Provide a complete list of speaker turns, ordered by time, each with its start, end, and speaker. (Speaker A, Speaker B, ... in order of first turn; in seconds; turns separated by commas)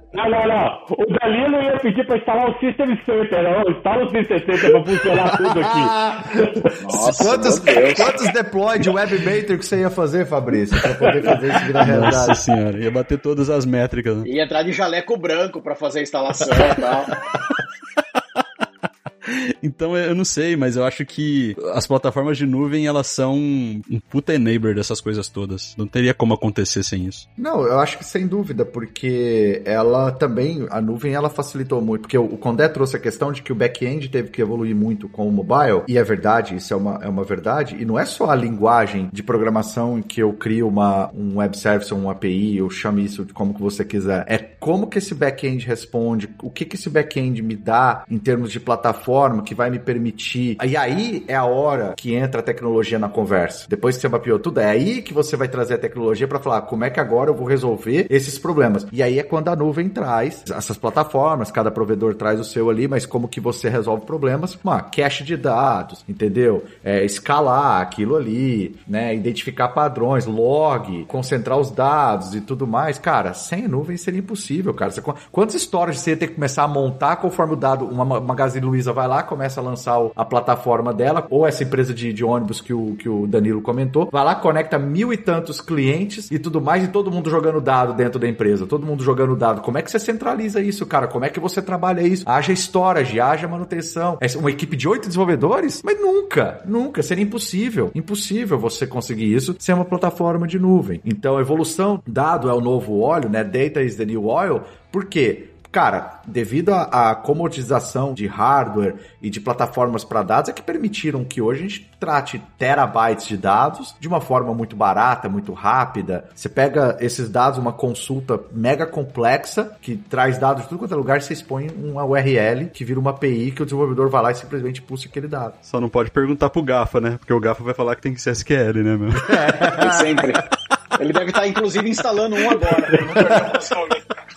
Speaker A: 0.1-6.7, Speaker B: 5.2-12.4, Speaker C: 6.8-8.2, Speaker D: 11.3-14.3, Speaker C: 14.2-17.1, Speaker D: 16.4-17.6, Speaker D: 19.2-27.2, Speaker B: 27.4-125.6, Speaker D: 125.6-129.3, Speaker B: 129.2-130.3, Speaker C: 129.8-130.4, Speaker C: 131.0-134.1, Speaker B: 133.1-133.5